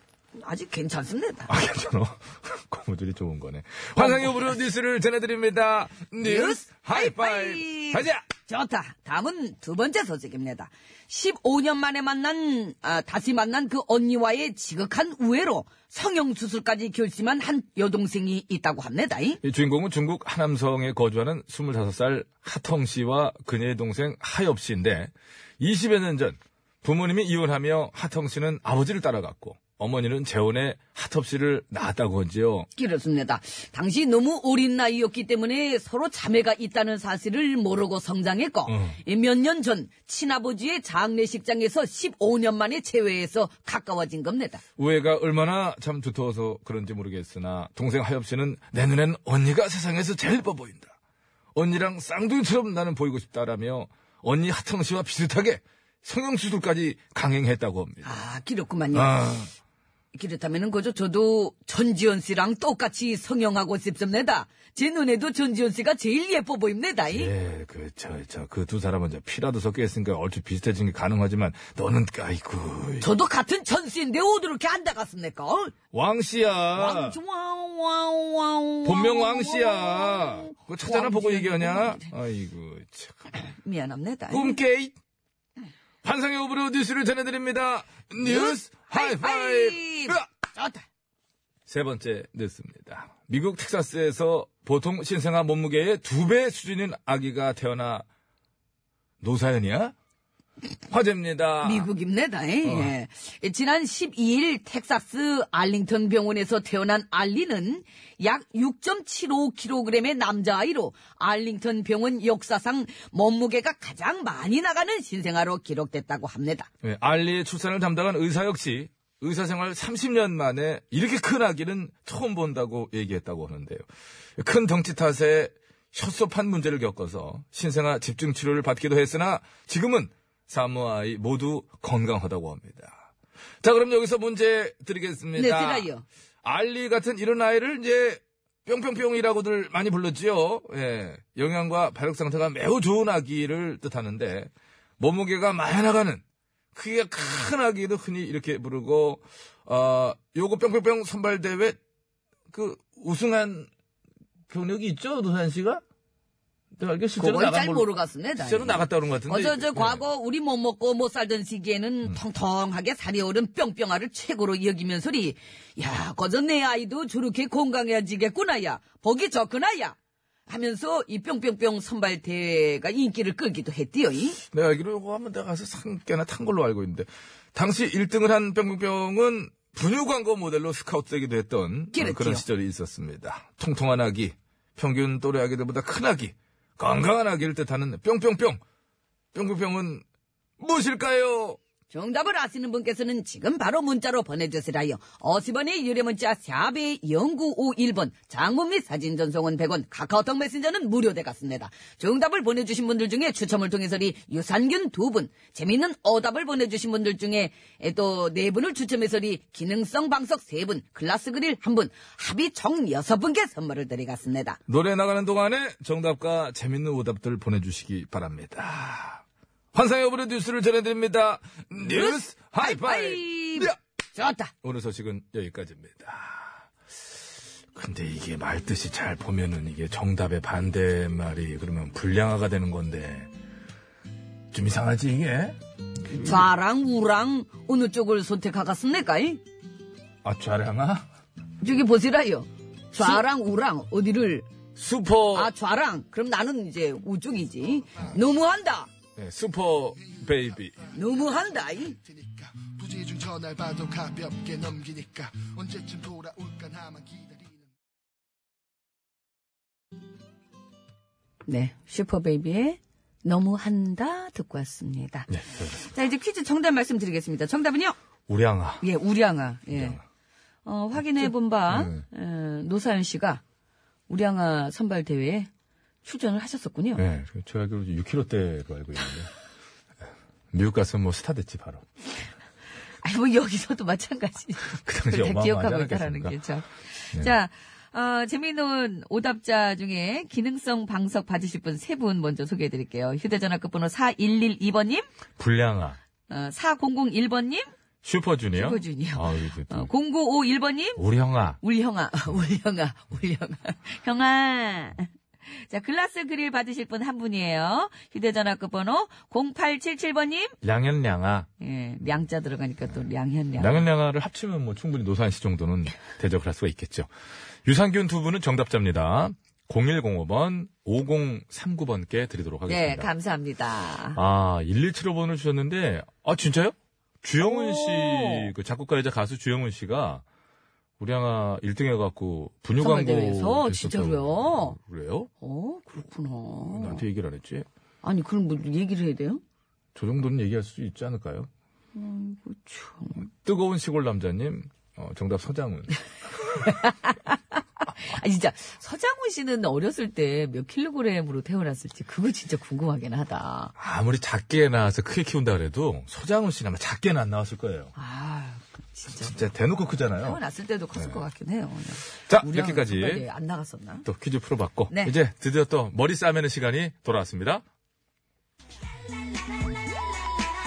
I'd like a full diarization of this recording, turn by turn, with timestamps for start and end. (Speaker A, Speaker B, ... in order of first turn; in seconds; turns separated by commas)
Speaker A: 0.4-1.5, Speaker B: 1.5-8.2, Speaker A: 4.0-4.5, Speaker A: 6.2-19.4, Speaker B: 19.4-32.7, Speaker A: 32.8-44.6, Speaker B: 38.7-39.0, Speaker B: 44.8-51.0, Speaker B: 51.5-58.1, Speaker A: 58.0-59.3, Speaker B: 58.9-59.5, Speaker A: 60.1-67.3, Speaker B: 67.1-73.2, Speaker A: 73.0-75.7, Speaker B: 75.9-77.2, Speaker A: 76.8-82.1, Speaker B: 78.8-83.3, Speaker A: 83.6-84.6, Speaker B: 84.3-85.0, Speaker B: 86.0-90.3, Speaker A: 88.2-90.8, Speaker B: 91.7-98.1, Speaker B: 99.2-100.0, Speaker B: 100.9-101.9, Speaker A: 101.6-116.7, Speaker B: 102.6-102.9, Speaker B: 116.8-123.9, Speaker B: 124.4-133.1, Speaker B: 133.6-135.9, Speaker A: 135.4-136.0, Speaker B: 136.4-146.2, Speaker B: 146.7-151.8, Speaker B: 152.5-153.7, Speaker B: 154.5-155.8, Speaker B: 156.8-160.0, Speaker A: 157.2-170.0, Speaker A: 170.5-174.4, Speaker B: 174.5-188.6, Speaker A: 181.9-182.4, Speaker B: 189.3-190.0, Speaker B: 190.6-191.6, Speaker A: 191.9-214.6, Speaker B: 214.7-223.8, Speaker A: 221.8-224.5, Speaker B: 224.6-226.7, Speaker B: 227.7-233.3, Speaker B: 234.5-235.6, Speaker B: 236.1-236.4, Speaker A: 236.1-239.4, Speaker B: 240.2-241.1, Speaker A: 241.6-244.5, Speaker B: 243.0-243.2, Speaker B: 244.8-245.5, Speaker A: 245.3-248.9, Speaker B: 249.2-250.8, Speaker C: 250.0-257.7, Speaker A: 250.9-252.0, Speaker A: 261.5-268.0, Speaker B: 265.3-265.8, Speaker B: 268.3-268.8, Speaker A: 268.8-270.0, Speaker B: 269.7-270.0, Speaker A: 270.6-273.4, Speaker B: 271.2-272.1, Speaker A: 274.1-275.5, Speaker A: 276.0-277.0, Speaker B: 277.0-279.3, Speaker B: 280.5-281.8, Speaker A: 283.0-295.1, Speaker B: 284.8-286.4, Speaker B: 295.4-296.0, Speaker A: 296.3-297.7, Speaker B: 298.0-299.9, Speaker A: 298.5-301.0, Speaker B: 301.0-301.6, Speaker A: 301.6-310.6, Speaker B: 310.6-311.5, Speaker A: 311.6-313.9, Speaker B: 313.6-317.1, Speaker B: 317.6-323.1, Speaker A: 322.7-324.2, Speaker B: 324.1-330.2, Speaker A: 327.4-328.5, Speaker B: 331.0-335.3, Speaker A: 332.8-334.8, Speaker A: 335.4-337.0, Speaker B: 336.7-337.7, Speaker A: 338.0-339.4, Speaker B: 339.9-341.5, Speaker A: 341.9-343.3, Speaker B: 343.2-345.9, Speaker A: 346.5-353.7, Speaker B: 353.8-357.9, Speaker A: 358.0-359.4, Speaker B: 359.2-360.4, Speaker A: 360.2-364.1, Speaker B: 362.3-363.3, Speaker B: 364.1-367.6